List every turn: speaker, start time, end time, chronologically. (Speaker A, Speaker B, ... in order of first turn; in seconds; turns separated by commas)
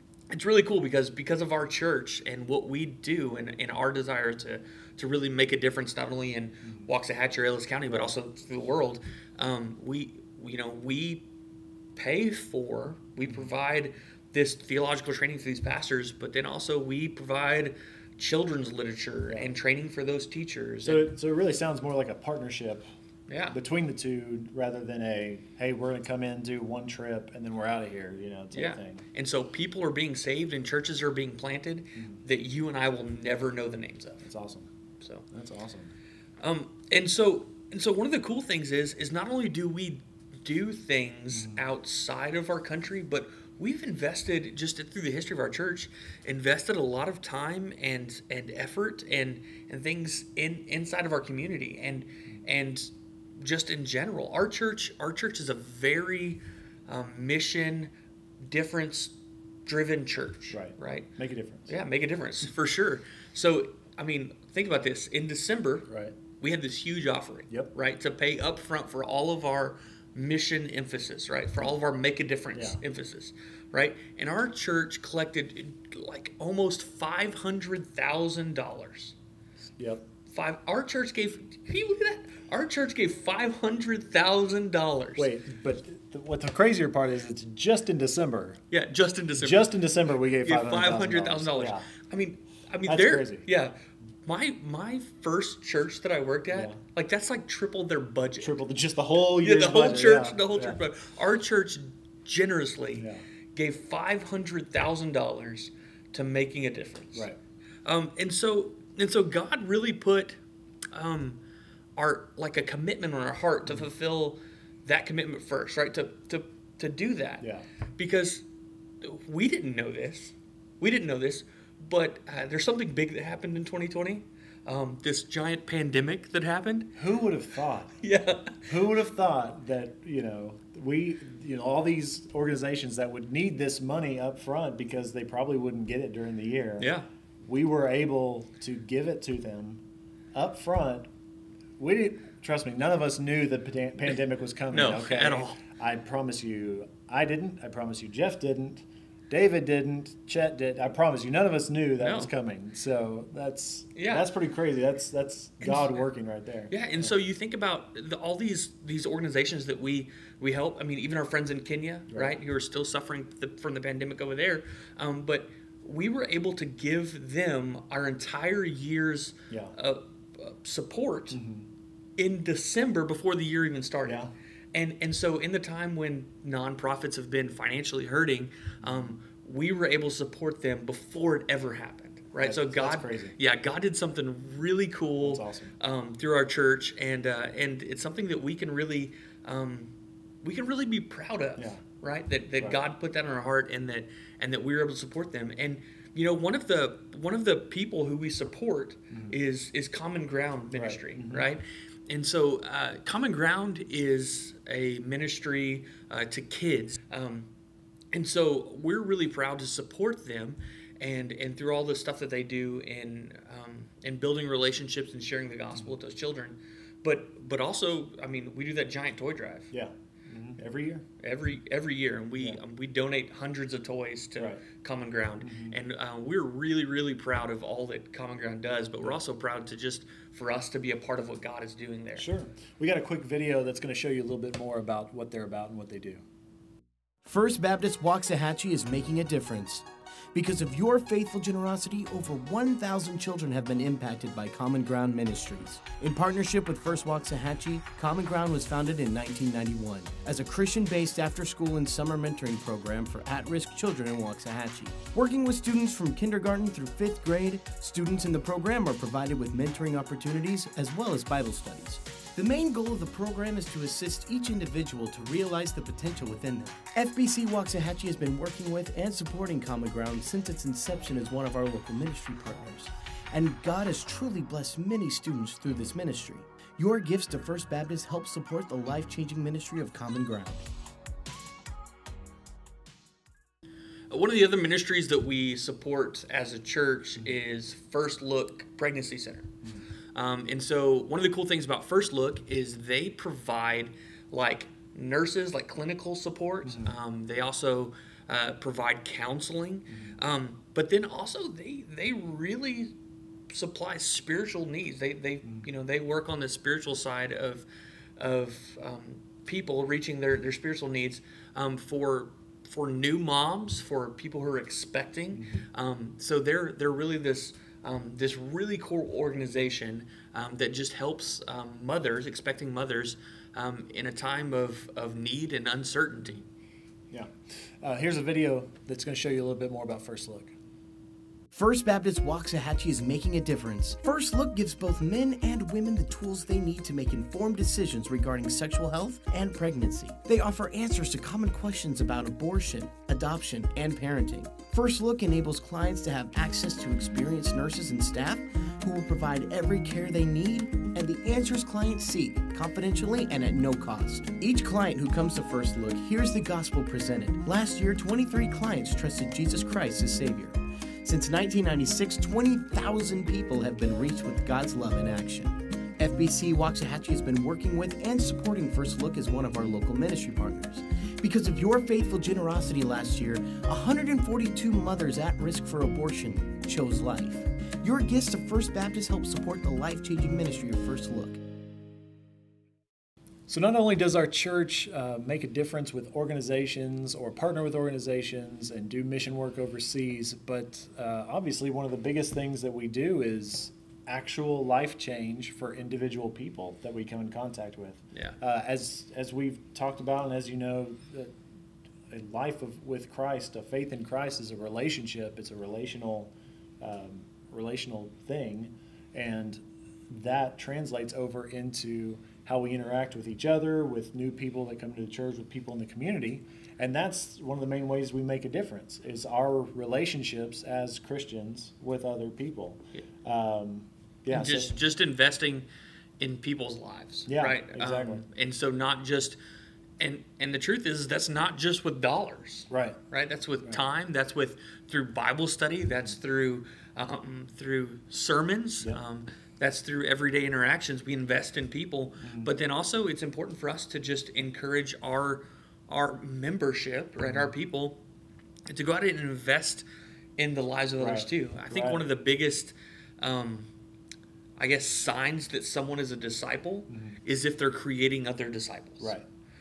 Speaker A: 0.3-11.2, Speaker B: 7.8-8.2, Speaker A: 11.9-21.1, Speaker B: 20.8-22.9, Speaker A: 23.3-23.6, Speaker B: 23.5-29.0, Speaker A: 28.5-34.2, Speaker B: 34.2-34.7, Speaker B: 35.3-35.9, Speaker A: 36.4-57.9, Speaker B: 41.3-41.6, Speaker A: 58.5-59.1, Speaker A: 59.6-61.1, Speaker B: 60.5-61.7, Speaker A: 61.7-79.1, Speaker B: 65.9-66.1, Speaker B: 72.5-72.8, Speaker B: 79.8-80.0, Speaker A: 80.3-85.3, Speaker B: 85.2-88.6, Speaker A: 88.7-89.8, Speaker B: 89.4-91.9, Speaker A: 90.4-98.5, Speaker B: 92.8-93.5, Speaker B: 96.5-96.8, Speaker B: 98.4-100.8, Speaker A: 99.4-107.3, Speaker B: 102.9-103.2, Speaker A: 107.8-110.4, Speaker A: 110.9-111.4, Speaker A: 112.0-117.4, Speaker A: 118.0-118.4, Speaker A: 119.0-126.9, Speaker B: 127.0-128.0, Speaker A: 128.0-128.6, Speaker B: 128.7-136.9, Speaker A: 136.8-137.1, Speaker B: 137.4-139.8, Speaker B: 140.3-141.1, Speaker B: 141.8-157.1, Speaker A: 144.7-145.6, Speaker A: 152.0-152.3, Speaker A: 153.9-154.2, Speaker A: 155.6-156.0, Speaker A: 156.7-171.4, Speaker B: 171.3-171.7, Speaker A: 172.2-174.2, Speaker B: 174.0-174.3, Speaker A: 174.7-207.5, Speaker B: 178.8-179.2, Speaker B: 182.4-183.4, Speaker B: 185.2-185.7, Speaker B: 191.6-191.8, Speaker B: 199.1-199.3, Speaker B: 200.7-201.5, Speaker A: 208.1-219.7, Speaker B: 219.7-221.0, Speaker A: 221.2-232.3, Speaker B: 224.3-224.6, Speaker B: 225.4-225.8, Speaker B: 232.2-236.2, Speaker C: 237.2-280.6, Speaker A: 284.1-289.5, Speaker A: 290.1-302.9, Speaker B: 296.6-296.9, Speaker B: 299.9-300.1, Speaker A: 303.5-307.6, Speaker A: 308.2-326.4, Speaker B: 315.3-315.6, Speaker B: 327.1-330.5, Speaker C: 331.5-381.4, Speaker B: 383.5-401.4, Speaker B: 402.1-424.8, Speaker A: 424.3-425.7, Speaker A: 426.2-429.4, Speaker B: 427.3-428.2, Speaker A: 430.0-448.0, Speaker B: 432.7-433.0, Speaker B: 442.2-442.5, Speaker B: 447.2-447.5, Speaker A: 448.7-449.8, Speaker A: 450.4-453.7, Speaker B: 451.0-452.0, Speaker A: 454.6-459.1, Speaker B: 456.9-457.2